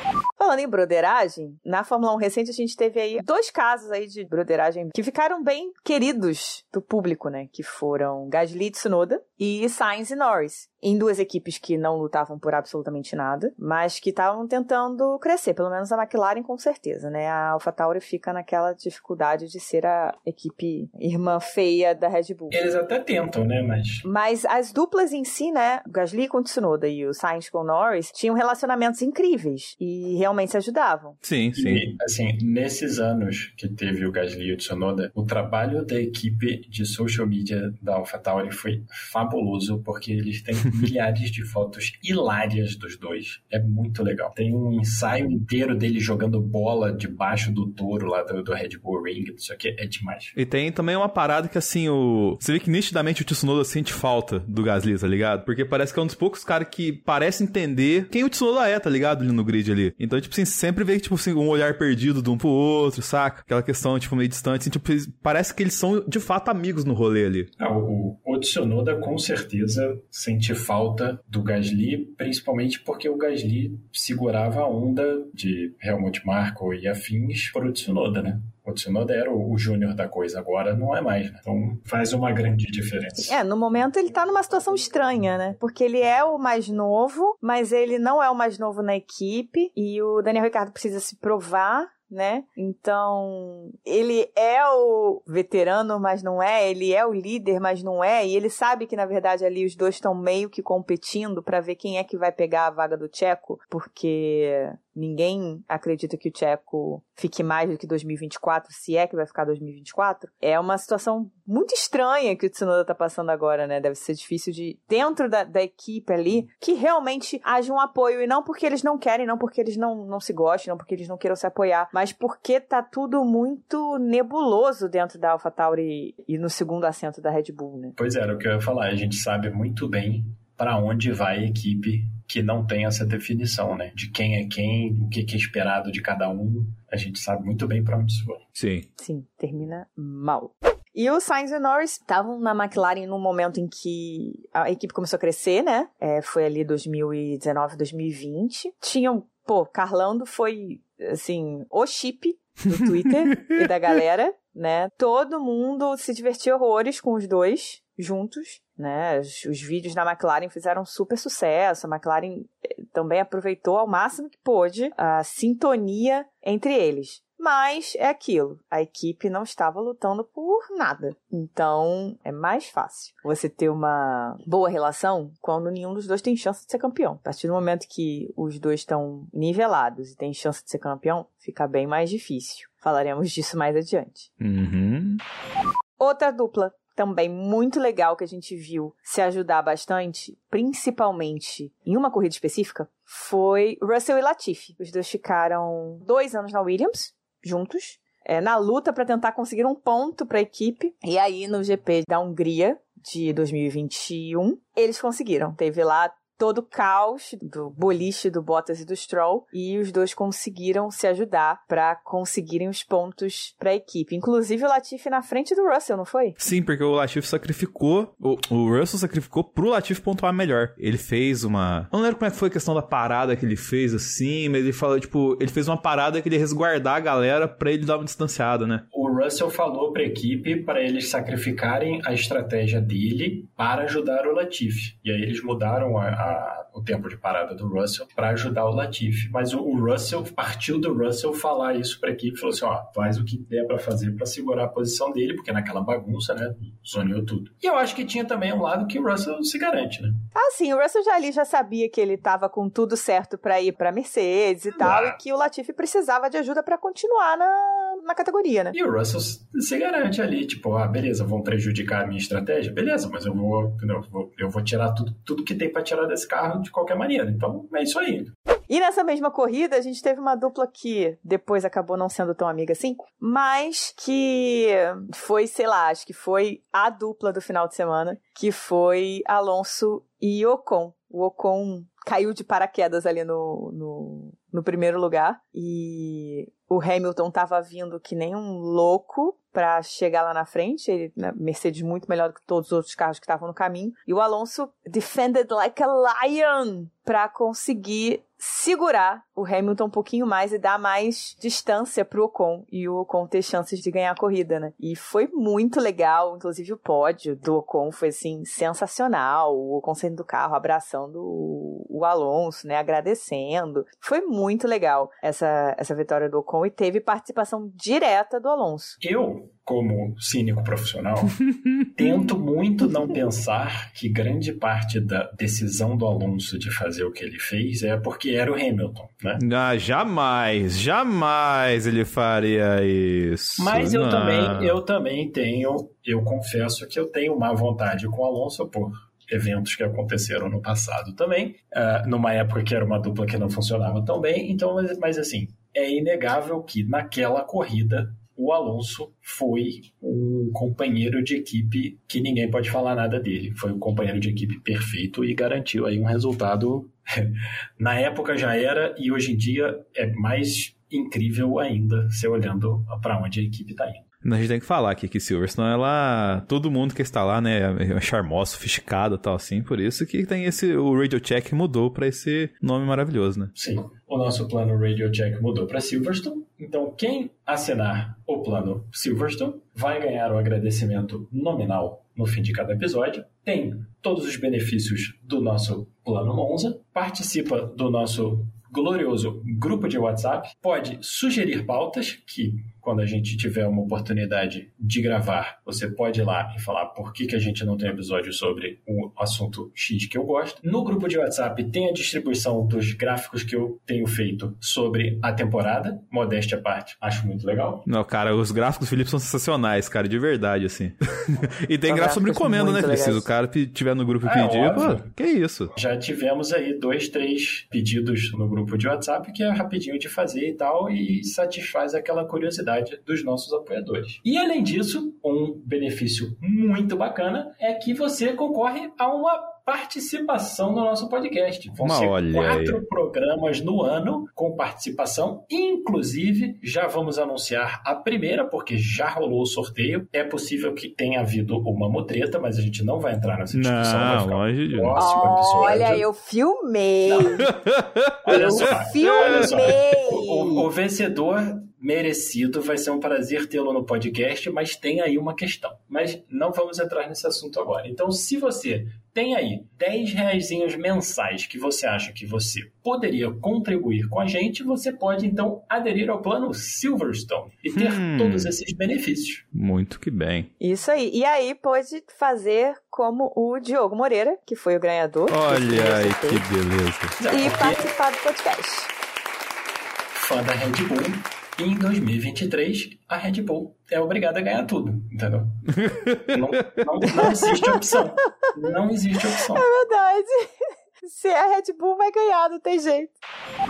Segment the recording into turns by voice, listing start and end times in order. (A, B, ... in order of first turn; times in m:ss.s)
0:00.4-0:22.6 A
0:22.5-0:24.0 B
0:24.0-0:31.2 A
0:31.2-0:31.8 C
0:31.6-0:50.3 B
0:50.3-1:07.5 C
1:07.6-1:23.4 B
1:23.2-2:08.0 A
2:08.0-2:18.4 B
2:18.5-2:18.9 C
2:19.0-3:04.3 A
3:04.4-3:05.2 C
3:06.0-3:36.4 A
3:36.4-3:48.8 C
3:48.9-4:10.2 B
4:10.3-4:18.7 A
4:14.8-4:15.2 B
4:18.7-4:28.3 B
4:28.7-5:19.0 A
5:19.0-5:29.4 B
5:29.4-5:34.8 C
5:33.6-6:04.0 B
6:04.2-6:13.5 C
6:13.5-6:47.8 B
6:47.9-6:55.7 C
6:51.9-6:53.3 A
6:54.2-6:55.1 B
6:55.7-7:26.0 B
7:11.8-7:12.8 C
7:23.5-7:25.0 C
7:25.0-7:27.5 A
7:27.1-7:27.5 B
7:27.4-7:29.6 C
7:28.2-7:49.4 B
7:28.3-7:30.7 A
7:47.7-7:48.5 C
7:49.5-7:50.5 C
7:50.6-7:56.4 A
7:55.3-7:57.2 C
7:57.2-7:57.9 B
7:57.3-7:58.9 A
8:00.1-8:05.6 B
8:05.7-8:06.8 C
8:06.3-8:09.6 B
8:07.1-8:08.0 A
8:09.5-8:13.2 A